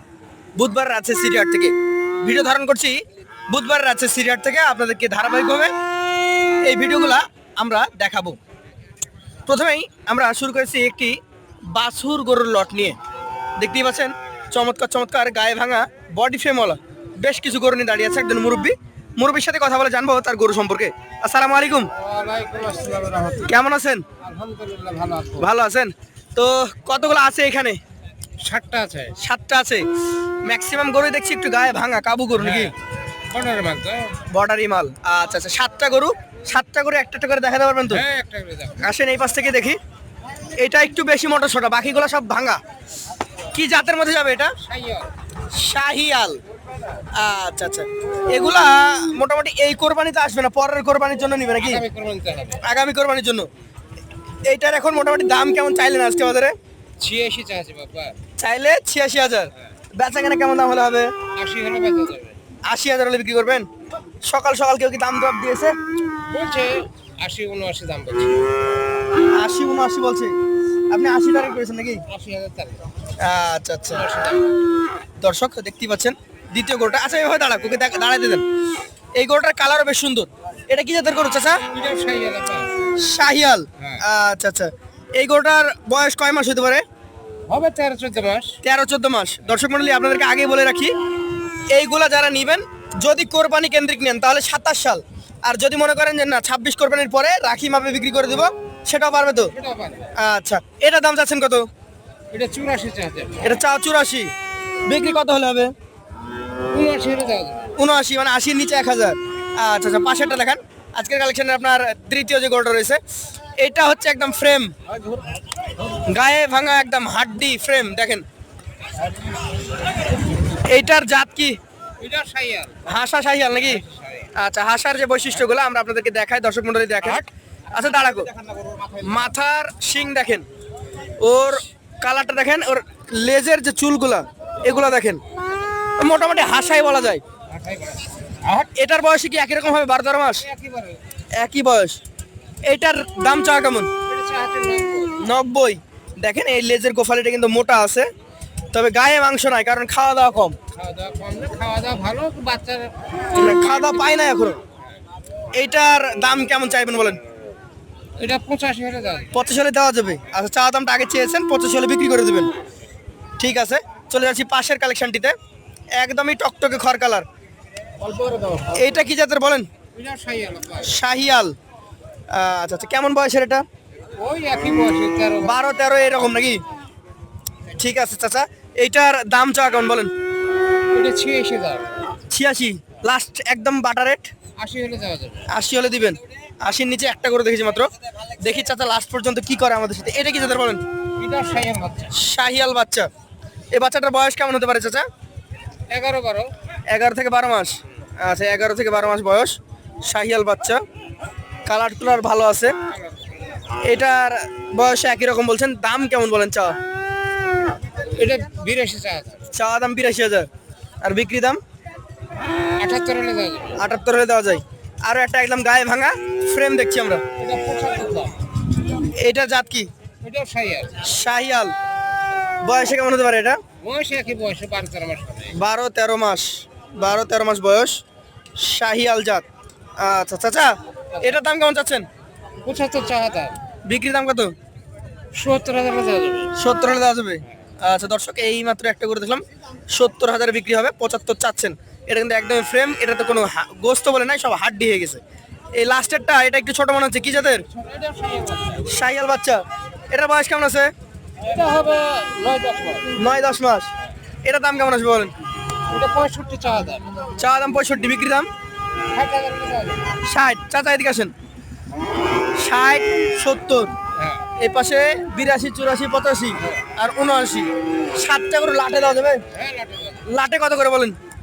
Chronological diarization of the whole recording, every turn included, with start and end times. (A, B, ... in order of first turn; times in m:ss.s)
0:00.6-0:05.7 A
0:06.6-0:08.4 A
0:09.5-0:13.0 A
0:13.6-0:21.9 A
0:21.9-0:23.5 B
0:23.4-0:24.0 A
0:24.2-0:25.5 B
0:25.4-0:27.8 A
0:28.4-0:29.2 B
0:29.2-0:29.8 A
0:30.4-0:32.7 A
0:32.4-0:32.7 B
0:33.3-0:34.2 B
0:34.3-0:38.0 A
0:37.9-0:38.8 B
0:38.8-0:39.8 A
0:40.6-0:42.6 A
0:43.5-0:44.5 A
0:44.6-0:45.1 B
0:45.5-0:46.4 A
0:47.1-0:51.8 A
0:51.6-0:52.6 B
0:52.6-0:53.5 A
0:54.4-0:56.5 A
0:57.0-0:58.1 B
0:58.4-1:01.1 A
1:01.4-1:02.4 B
1:02.6-1:03.7 A
1:04.2-1:05.8 A
1:06.3-1:08.5 B
1:09.3-1:10.3 A
1:10.9-1:12.0 A
1:12.1-1:12.8 B
1:13.2-1:14.0 A
1:13.9-1:14.6 B
1:15.2-1:18.4 A
1:19.1-1:21.6 A
1:21.7-1:22.7 B
1:23.0-1:26.8 A
1:27.5-1:28.6 B
1:28.6-1:30.9 A
1:31.7-1:39.5 A
1:39.5-1:40.1 B
1:40.2-1:41.7 A
1:42.3-1:43.5 B
1:43.4-1:44.3 A
1:44.8-1:45.7 A
1:46.7-1:47.7 B
1:47.8-1:53.0 A
1:53.6-1:54.7 A
1:55.9-1:58.2 A
2:00.5-2:01.6 A
2:02.0-2:02.8 B
2:02.8-2:03.8 A
2:03.6-2:04.3 B
2:04.3-2:08.3 A
2:08.4-2:09.1 B
2:09.0-2:10.4 A
2:11.2-2:15.2 A
2:16.0-2:17.2 A
2:17.5-2:18.7 B
2:18.7-2:20.4 A
2:20.4-2:21.0 B
2:21.4-2:22.0 A
2:22.6-2:23.9 A
2:24.0-2:25.2 B
2:25.2-2:28.1 A
2:28.7-2:30.6 A
2:30.7-2:34.2 B
2:33.3-2:34.6 A
2:35.5-2:37.2 A
2:38.2-2:39.3 B
2:39.3-2:42.5 A
2:43.4-2:45.3 A
2:46.0-2:47.2 A
2:48.0-2:48.7 B
2:48.7-2:49.7 A
2:49.9-2:50.9 B
2:50.8-2:51.5 A
2:52.3-2:53.6 A
2:54.2-2:55.6 B
2:55.4-2:56.6 A
2:57.7-3:00.1 A
3:00.9-3:02.0 B
3:02.3-3:04.3 A
3:04.6-3:05.5 B
3:05.5-3:10.8 A
3:11.2-3:12.1 B
3:12.1-3:13.1 A
3:13.7-3:15.0 A
3:15.9-3:16.5 B
3:16.9-3:20.8 A
3:21.6-3:22.7 A
3:22.9-3:23.3 B
3:23.8-3:26.8 A
3:28.1-3:29.4 B
3:29.5-3:30.5 A
3:31.0-3:31.6 A
3:32.8-3:33.8 B
3:33.8-3:37.2 A
3:37.4-3:38.4 B
3:38.9-3:39.9 A
3:40.2-3:41.0 B
3:41.0-3:41.7 A
3:42.6-3:43.6 A
3:43.8-3:45.5 B
3:45.5-3:48.0 A
3:48.6-3:49.4 A
3:50.0-3:52.0 A
3:52.6-3:53.6 B
3:53.8-3:54.5 A
3:55.3-3:56.5 B
3:56.6-4:05.2 A
4:05.7-4:07.6 A
4:07.7-4:08.9 B
4:08.8-4:10.9 A
4:11.4-4:13.1 B
4:13.1-4:13.9 A
4:14.4-4:15.3 A
4:15.9-4:17.0 B
4:17.4-4:18.5 A
4:19.1-4:20.1 B
4:20.2-4:21.3 A
4:22.6-4:23.9 A
4:24.2-4:24.4 B
4:24.6-4:29.4 A
4:29.5-4:30.3 B
4:30.2-4:31.2 A